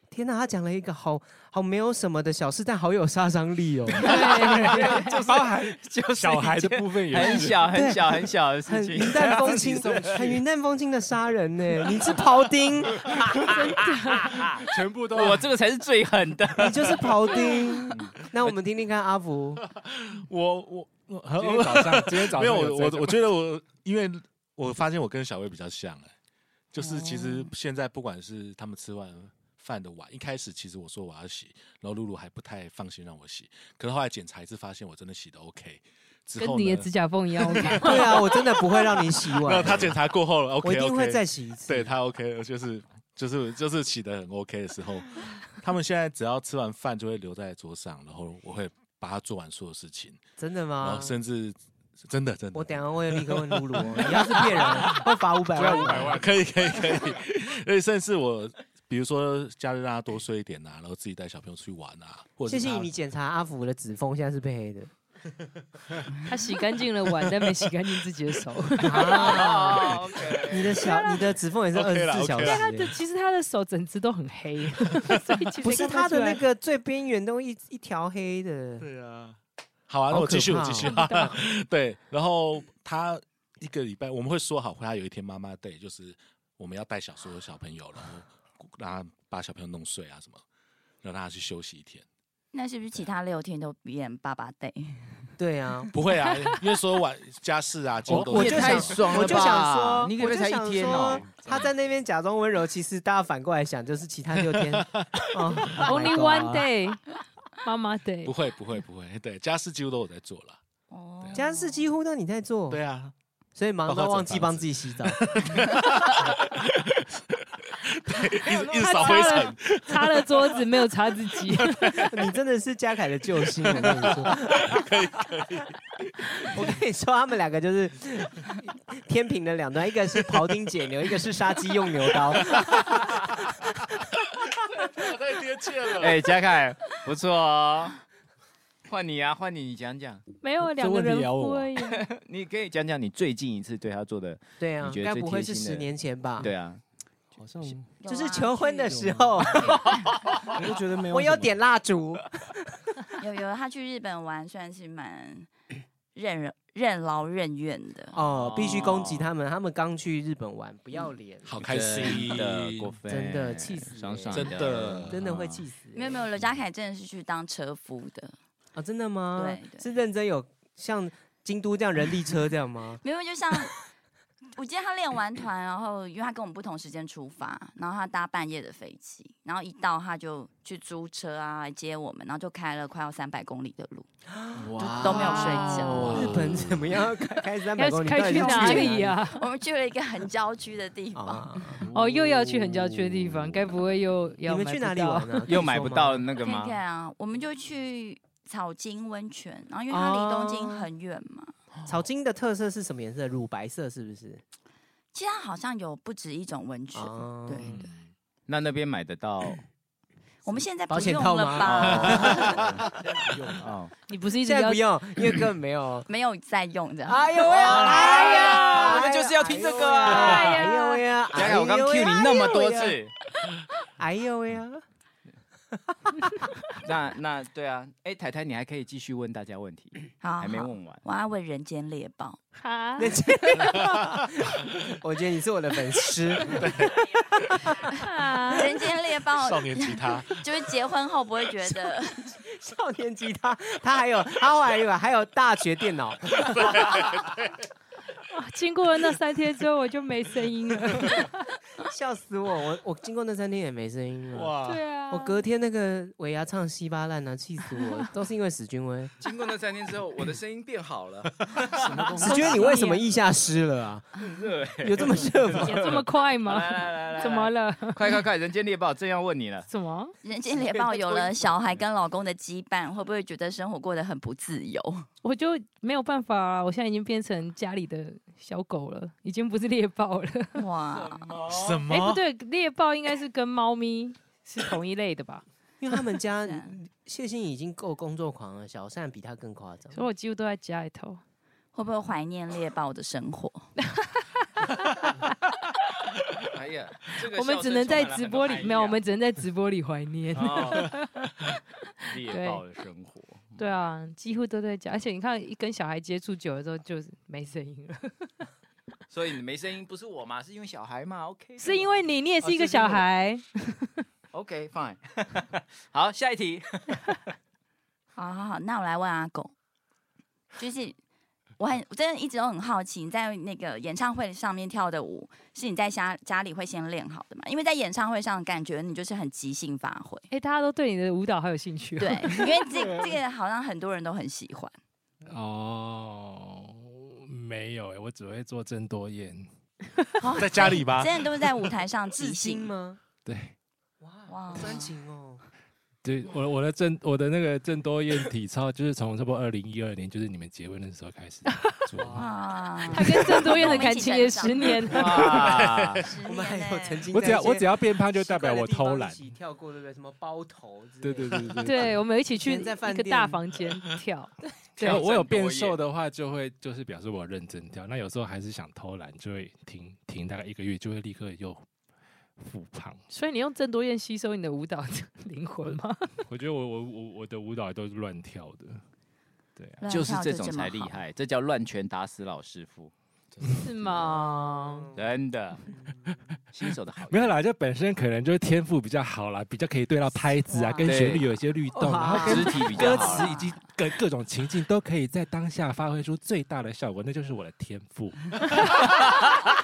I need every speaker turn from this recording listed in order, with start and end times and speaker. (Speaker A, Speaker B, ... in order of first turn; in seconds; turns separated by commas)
Speaker A: 0.1-4.2, Speaker B: 4.0-10.1, Speaker C: 4.0-5.1, Speaker D: 4.1-7.8, Speaker A: 7.7-13.1, Speaker E: 9.7-10.1, Speaker B: 13.1-17.4, Speaker C: 13.5-14.3, Speaker D: 14.7-15.4, Speaker A: 16.6-19.6, Speaker F: 19.7-26.1, Speaker D: 21.2-23.2, Speaker F: 26.7-38.2, Speaker C: 27.0-27.3, Speaker C: 36.4-38.2, Speaker A: 37.8-40.0, Speaker F: 39.3-50.2, Speaker A: 40.6-42.0, Speaker A: 50.4-51.2, Speaker F: 50.8-55.0, Speaker A: 52.5-56.2, Speaker D: 55.5-56.4, Speaker F: 55.6-62.9, Speaker A: 62.5-64.9, Speaker C: 66.2-69.4, Speaker A: 68.8-72.9, Speaker B: 69.0-70.8, Speaker C: 70.8-71.3, Speaker F: 71.7-72.6, Speaker C: 72.4-76.4, Speaker A: 75.6-78.9, Speaker F: 78.8-79.4, Speaker F: 79.9-90.4, Speaker A: 80.1-80.9, Speaker C: 80.8-81.4, Speaker F: 91.0-92.0, Speaker G: 92.5-95.3, Speaker A: 95.4-95.9, Speaker F: 95.9-99.6, Speaker B: 98.1-101.2, Speaker A: 98.1-106.7, Speaker F: 104.4-105.9, Speaker C: 105.8-107.0, Speaker C: 107.6-108.3, Speaker F: 108.2-110.6, Speaker G: 110.9-111.8, Speaker A: 111.3-112.8, Speaker F: 112.7-113.1, Speaker A: 113.5-115.2, Speaker F: 113.8-117.0, Speaker F: 117.8-120.4, Speaker C: 118.5-122.0, Speaker F: 121.5-122.1, Speaker A: 122.0-124.9, Speaker F: 123.6-125.7, Speaker A: 126.4-132.8, Speaker F: 132.3-133.5, Speaker F: 134.8-136.2, Speaker B: 136.0-138.0, Speaker B: 138.9-140.2, Speaker C: 140.4-142.1, Speaker E: 140.6-141.7, Speaker B: 141.9-146.8, Speaker A: 144.6-146.5, Speaker E: 147.3-147.9, Speaker G: 148.0-148.9, Speaker A: 148.0-149.9, Speaker E: 148.8-149.5, Speaker E: 150.5-151.6, Speaker A: 151.1-152.5, Speaker G: 153.2-155.5, Speaker G: 156.1-158.2, Speaker A: 158.1-162.2, Speaker B: 158.2-159.3, Speaker F: 161.4-162.9, Speaker B: 161.6-165.6, Speaker A: 163.1-166.2, Speaker F: 164.3-165.2, Speaker G: 165.9-168.3, Speaker A: 168.8-173.0, Speaker G: 169.3-169.8, Speaker G: 173.0-173.8, Speaker G: 174.6-184.1, Speaker A: 184.3-189.2, Speaker B: 184.6-186.7, Speaker G: 185.0-186.2, Speaker C: 185.3-185.9, Speaker C: 187.8-189.4, Speaker G: 188.3-191.5, Speaker A: 191.1-191.9, Speaker C: 191.9-195.5, Speaker E: 192.1-192.4, Speaker A: 194.4-196.3, Speaker B: 195.4-196.8, Speaker G: 196.4-201.5, Speaker A: 199.9-200.9, Speaker A: 201.8-204.4, Speaker G: 205.1-207.9, Speaker A: 206.9-207.8, Speaker B: 208.5-209.6, Speaker G: 210.4-212.5, Speaker A: 210.9-212.6, Speaker B: 211.6-212.6, Speaker E: 213.2-213.7, Speaker B: 213.6-213.9, Speaker C: 214.1-214.8, Speaker A: 214.4-216.1, Speaker G: 216.1-217.4, Speaker A: 217.1-223.0, Speaker B: 217.4-220.7, Speaker C: 218.1-218.7, Speaker C: 220.1-221.0, Speaker B: 221.3-223.1, Speaker A: 224.0-224.8, Speaker B: 226.8-231.0, Speaker G: 230.2-232.4, Speaker C: 232.6-233.1, Speaker A: 233.0-236.9, Speaker F: 233.6-234.0, Speaker F: 236.5-236.9, Speaker C: 238.0-238.7, Speaker G: 238.5-242.3, Speaker F: 239.3-240.4, Speaker A: 242.4-246.9, Speaker F: 246.3-247.5, Speaker C: 248.3-251.4, Speaker A: 251.8-254.6, Speaker F: 254.3-254.8, Speaker C: 254.6-255.4, Speaker A: 255.1-259.1, Speaker B: 259.2-261.9, Speaker E: 261.8-262.7, Speaker A: 262.2-264.1, Speaker C: 262.2-263.0, Speaker B: 264.2-269.7, Speaker A: 264.8-265.9, Speaker C: 265.6-268.2, Speaker C: 269.7-270.1, Speaker G: 270.2-275.1, Speaker B: 270.6-271.4, Speaker C: 275.2-280.6, Speaker G: 280.5-281.3, Speaker F: 281.4-282.2, Speaker C: 281.9-285.4, Speaker A: 285.8-290.0, Speaker G: 286.4-286.7, Speaker C: 289.9-291.2, Speaker G: 291.7-293.7, Speaker C: 293.8-295.1, Speaker B: 296.5-299.0, Speaker C: 297.3-301.5, Speaker B: 300.3-300.9, Speaker B: 302.1-303.6, Speaker C: 302.2-302.6, Speaker C: 303.6-308.3, Speaker B: 309.1-313.0, Speaker C: 311.6-314.0, Speaker B: 314.3-317.0, Speaker G: 318.1-319.5, Speaker G: 320.6-321.0, Speaker G: 321.6-330.3, Speaker C: 330.3-332.5, Speaker G: 332.0-334.7, Speaker D: 335.2-339.5, Speaker G: 340.2-342.7, Speaker F: 340.3-341.4, Speaker A: 342.1-343.0, Speaker D: 343.2-343.5, Speaker A: 344.0-345.4, Speaker G: 344.3-344.9, Speaker D: 346.0-352.3, Speaker G: 352.1-355.3, Speaker C: 352.9-355.4, Speaker B: 354.9-356.0, Speaker F: 355.5-356.1, Speaker G: 356.0-357.1, Speaker A: 356.2-363.4, Speaker D: 357.1-359.2, Speaker E: 361.0-361.8, Speaker C: 361.6-365.0, Speaker D: 364.8-371.6, Speaker B: 364.8-365.8, Speaker D: 372.4-373.0, Speaker C: 373.1-376.1, Speaker D: 376.3-378.8, Speaker D: 379.6-379.8, Speaker G: 379.8-381.0, Speaker B: 379.9-382.9, Speaker C: 383.6-384.9, Speaker A: 384.4-384.9, Speaker B: 384.9-385.7, Speaker A: 385.7-386.1, Speaker B: 386.5-387.4, Speaker D: 387.1-398.4, Speaker G: 390.5-390.9, Speaker B: 390.8-391.3, Speaker A: 391.7-393.3, Speaker B: 392.1-393.4, Speaker G: 392.9-393.5